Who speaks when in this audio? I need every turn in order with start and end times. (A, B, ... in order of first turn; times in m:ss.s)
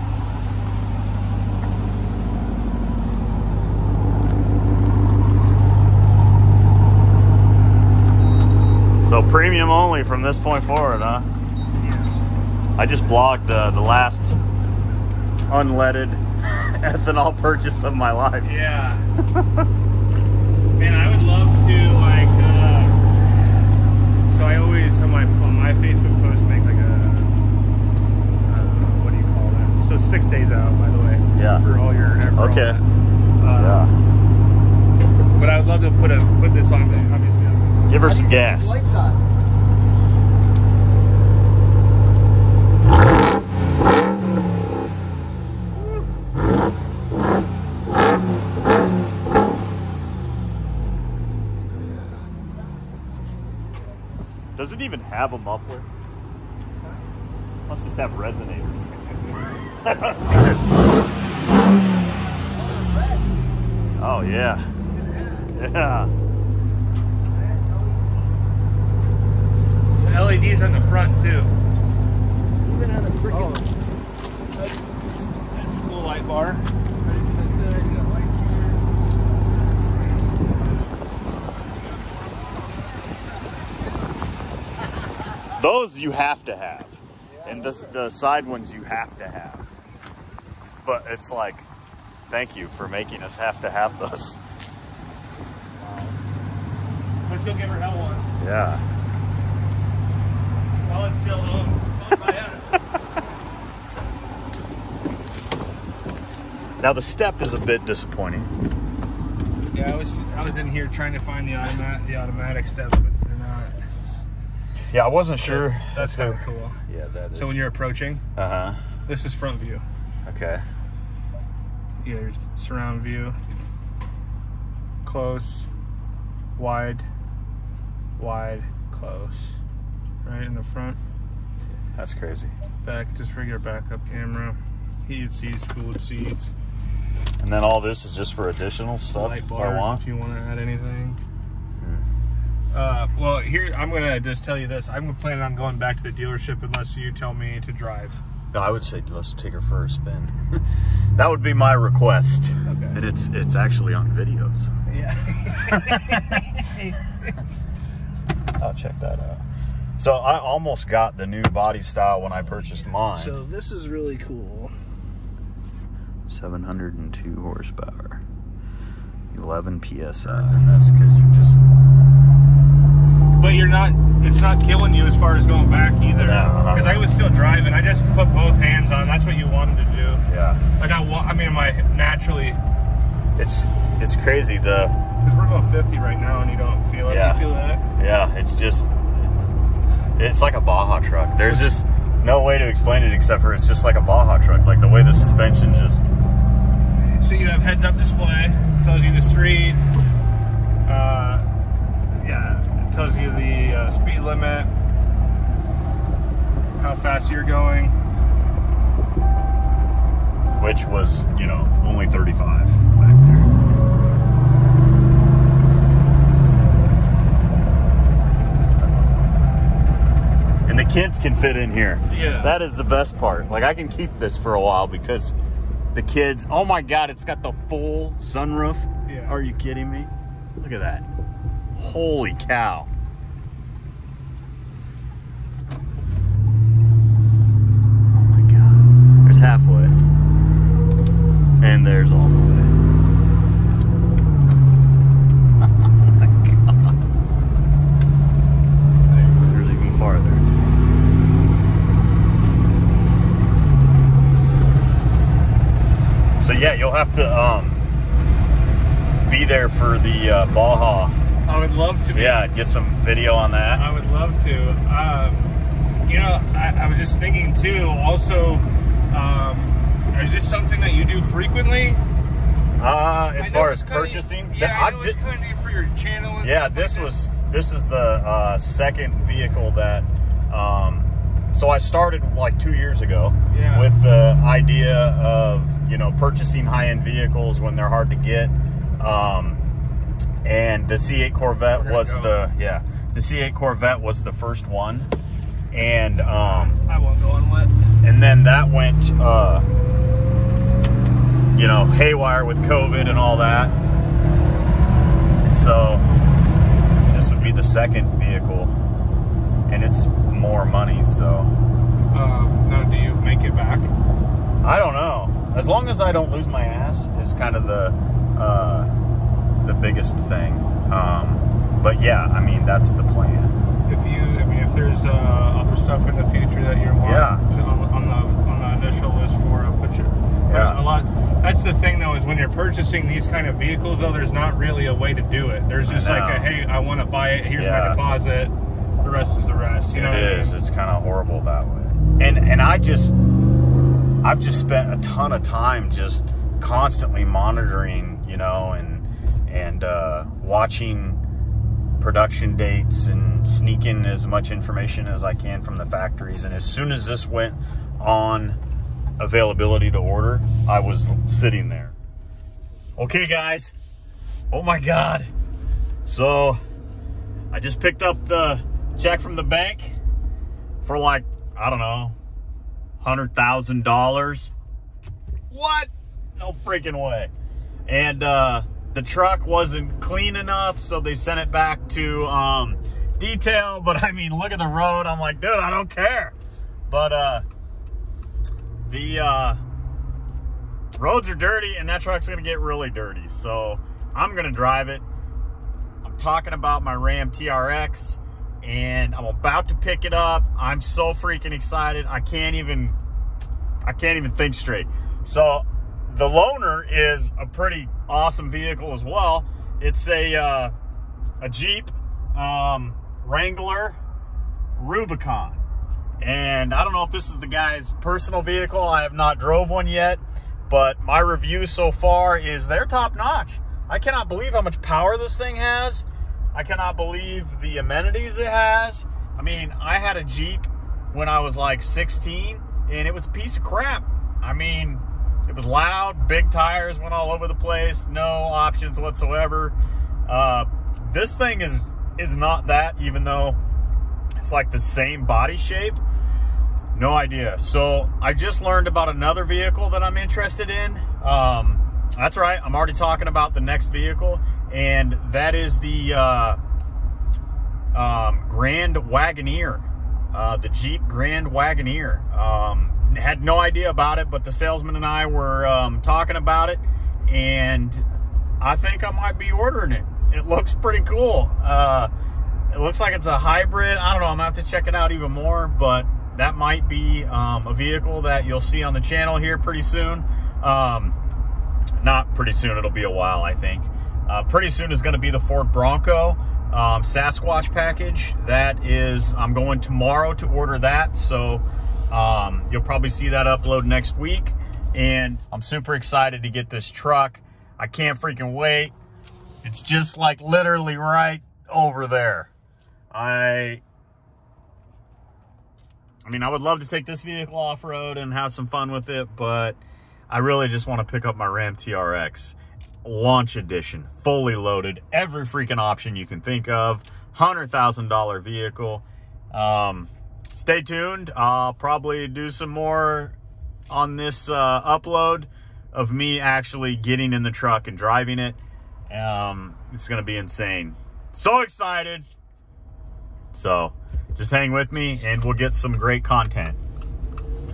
0:09.0-0:11.3 A
0:11.8-0:12.2 B
0:12.8-0:14.4 A
0:15.5-0:18.6 A
0:18.4-0:19.1 B
0:19.2-0:19.7 A
0:20.8-0:23.0 B
0:24.3-0:27.3 B
0:28.4-0:32.8 B
0:31.3-0:31.6 A
0:32.4-0:32.8 A
0:33.4-0:33.9 B
0:33.5-0:33.9 A
0:35.3-0:38.0 B
0:37.9-0:38.8 A
0:38.0-0:39.2 C
0:54.6-0:55.9 A
0:57.7-0:59.2 A
0:59.7-1:00.6 A
1:02.5-1:03.4 C
1:04.0-1:04.7 A
1:04.9-1:05.6 C
1:05.5-1:06.1 A
1:07.3-1:08.5 C
1:10.0-1:11.5 B
1:12.6-1:13.6 C
1:13.2-1:13.7 B
1:14.4-1:14.9 C
1:15.5-1:18.8 B
1:19.2-1:20.4 C
1:21.6-1:22.4 B
1:22.3-1:24.1 C
1:25.5-1:29.7 A
1:27.3-1:28.0 C
1:30.8-1:31.7 A
1:32.3-1:34.4 A
1:37.3-1:38.3 B
1:38.4-1:38.8 A
1:40.8-1:42.8 B
1:46.8-1:48.5 A
1:49.7-1:53.8 B
1:54.9-1:57.7 A
1:55.4-1:56.8 B
1:57.3-1:58.2 B
1:58.4-1:58.8 A
1:59.0-1:59.8 B
2:00.2-2:00.6 A
2:02.0-2:03.4 B
2:05.0-2:05.7 B
2:06.6-2:07.0 B
2:08.2-2:09.6 B
2:10.2-2:11.0 B
2:12.0-2:12.5 A
2:12.8-2:16.5 B
2:17.4-2:20.0 A
2:19.1-2:21.2 B
2:22.7-2:28.2 B
2:28.5-2:30.6 A
2:31.2-2:34.7 A
2:32.6-2:33.0 B
2:34.9-2:37.4 B
2:35.5-2:36.4 A
2:38.6-2:39.4 A
2:40.0-2:43.4 A
2:42.7-2:44.7 B
2:46.3-2:48.2 A
2:49.3-2:51.6 A
2:50.2-2:50.6 B
2:53.4-3:00.2 B
2:56.1-2:57.1 A
3:00.3-3:00.6 A
3:00.8-3:02.6 B
3:03.4-3:05.0 A
3:05.2-3:07.8 B
3:07.0-3:07.4 A
3:08.0-3:08.9 A
3:10.2-3:16.0 A
3:11.4-3:11.7 B
3:17.0-3:19.8 B
3:20.8-3:21.5 B
3:22.1-3:24.7 B
3:26.8-3:28.0 B
3:30.6-3:33.6 A
3:38.8-3:39.2 A
3:40.7-3:45.3 A
3:42.1-3:42.5 B
3:45.9-3:51.0 A
3:49.0-3:49.4 B
3:51.8-3:52.9 A
3:58.1-4:00.0 A
4:01.6-4:02.7 A
4:05.6-4:07.0 A
4:09.1-4:10.6 A
4:16.4-4:17.8 A
4:19.2-4:21.2 A
4:21.4-4:22.4 B
4:22.1-4:23.8 A
4:23.7-4:32.0 B
4:32.8-4:35.2 A
4:33.4-4:37.2 B
4:36.4-4:49.6 A
4:43.5-4:43.9 B
4:50.4-4:55.1 A
4:51.7-4:52.4 B
4:55.7-4:56.8 A
4:56.4-4:57.7 B
4:58.0-4:59.6 A
5:01.5-5:03.7 A
5:05.4-5:06.1 A
5:07.1-5:08.8 A
5:09.7-5:11.5 A
5:12.1-5:13.9 B
5:14.6-5:18.9 A
5:19.6-5:23.5 A
5:23.8-5:40.6 B
5:27.0-5:27.4 A
5:30.5-5:30.8 A
5:35.8-5:36.5 A
5:37.6-5:38.0 A
5:39.9-5:43.2 A
5:44.2-5:51.2 A
5:52.0-5:58.6 A
5:59.2-6:01.9 A
6:03.0-6:03.7 A
6:04.5-6:05.3 A
6:06.0-6:06.6 A
6:07.5-6:10.0 A
6:10.8-6:12.2 A
6:13.0-6:14.5 A
6:15.5-6:17.3 A
6:17.9-6:26.4 A
6:26.9-6:27.4 A
6:28.9-6:29.6 A
6:31.0-6:35.0 A
6:36.0-6:43.0 A
6:43.8-6:50.7 A
6:51.4-6:54.0 A
6:54.8-6:55.6 A
6:56.2-7:19.7 A
7:20.2-7:23.6 A
7:24.4-7:26.0 A
7:26.9-7:36.6 A
7:37.9-7:48.0 A
7:48.6-7:52.1 A
7:52.7-8:01.2 A
8:02.0-8:18.9 A
8:19.6-8:22.5 A
8:23.1-8:23.8 A
8:26.2-8:43.3 A
8:43.9-8:52.3 A
8:53.5-8:56.8 A